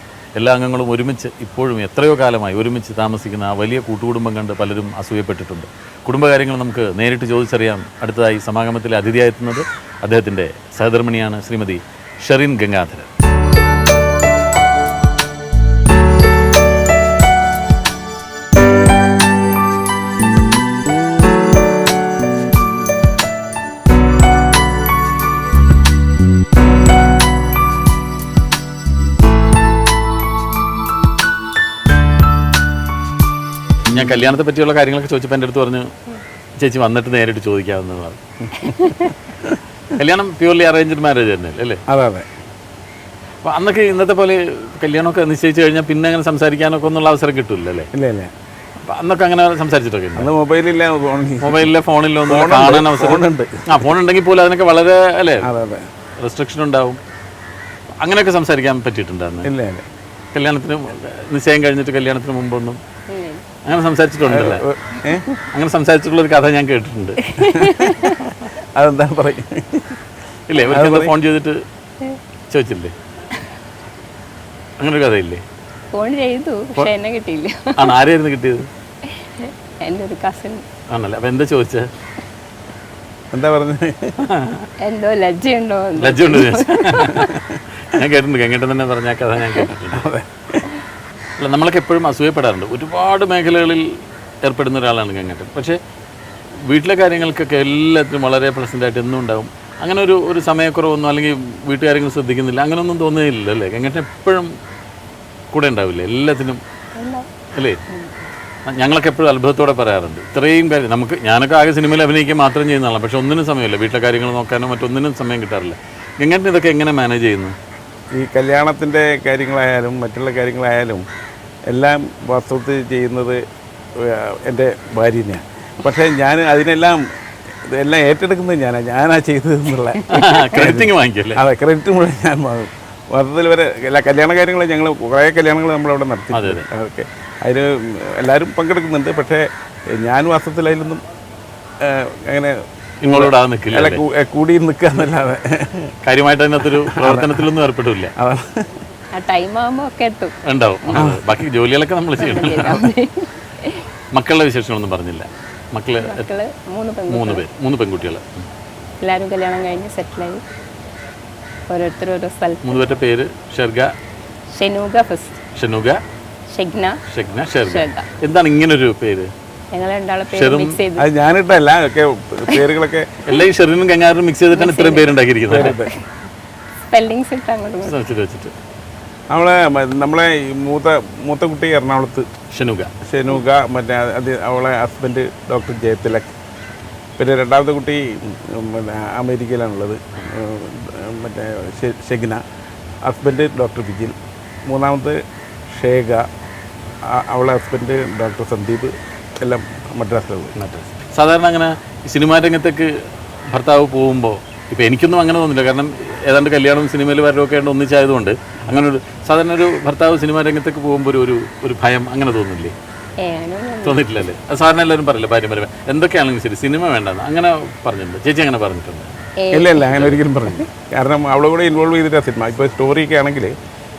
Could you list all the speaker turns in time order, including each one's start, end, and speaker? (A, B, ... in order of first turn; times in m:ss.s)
0:00.4-0:13.1 A
0:33.9-0:35.9 A
0:36.6-0:38.2 A
0:38.5-0:39.3 B
0:39.9-0:41.8 A
0:41.9-0:42.3 B
0:43.4-0:47.9 A
0:47.9-0:48.3 B
0:48.8-0:50.3 A
0:50.2-0:51.7 B
0:51.4-0:55.5 A
0:52.3-0:53.9 B
0:55.4-0:55.8 B
0:56.2-0:57.0 A
0:58.0-0:59.5 A
0:59.4-0:59.8 B
1:00.3-1:02.8 A
1:03.1-1:03.4 C
1:03.6-1:04.6 A
1:04.2-1:05.3 B
1:05.5-1:07.3 A
1:07.3-1:08.2 C
1:07.4-1:10.0 B
1:10.5-1:11.6 A
1:10.6-1:11.1 B
1:12.5-1:12.9 A
1:14.8-1:15.4 A
1:15.9-1:18.0 C
1:17.8-1:18.7 A
1:19.0-1:20.6 C
1:20.9-1:21.9 A
1:23.3-1:24.2 B
1:24.2-1:24.7 A
1:24.8-1:27.3 C
1:26.0-1:30.1 A
1:27.2-1:27.6 B
1:29.9-1:30.6 B
1:31.4-1:35.8 A
1:36.6-1:44.5 A
1:45.5-1:46.6 A
1:47.0-1:47.3 C
1:47.5-1:47.8 A
1:47.9-1:48.3 C
1:48.7-1:57.6 A
1:58.1-2:01.0 B
2:01.7-2:03.4 B
2:04.0-2:07.0 B
2:07.6-2:21.0 B
2:10.0-2:10.3 C
2:10.1-2:11.4 A
2:16.3-2:16.7 A
2:21.8-2:22.6 B
2:23.0-2:24.0 A
2:23.1-2:25.9 B
2:26.0-2:28.1 A
2:26.8-2:27.5 B
2:28.2-2:28.7 B
2:29.1-2:31.0 C
2:30.4-2:32.8 A
2:30.9-2:31.4 B
2:32.2-2:33.9 C
2:34.1-2:36.3 A
2:36.0-2:37.4 C
2:37.1-2:38.4 A
2:39.0-2:40.4 C
2:41.7-2:42.8 C
2:42.6-2:43.9 A
2:44.5-2:45.4 C
2:45.5-2:46.0 A
2:46.5-2:47.0 C
2:47.1-2:49.3 A
2:47.6-2:48.1 C
2:49.7-2:51.1 C
2:50.3-2:50.8 A
2:51.0-2:53.2 B
2:53.2-2:55.7 A
2:54.5-2:56.0 C
2:55.5-2:55.9 B
2:56.9-2:58.0 C
2:57.8-2:58.5 A
2:59.3-3:02.3 B
3:02.5-3:02.9 A
3:03.0-3:06.3 B
3:07.2-3:12.4 B
3:13.0-3:16.2 B
3:17.1-3:20.5 B
3:20.5-3:32.7 A
3:33.2-3:34.1 C
3:33.8-3:39.1 A
3:39.4-3:40.0 C
3:39.5-3:43.5 B
3:39.9-3:40.2 A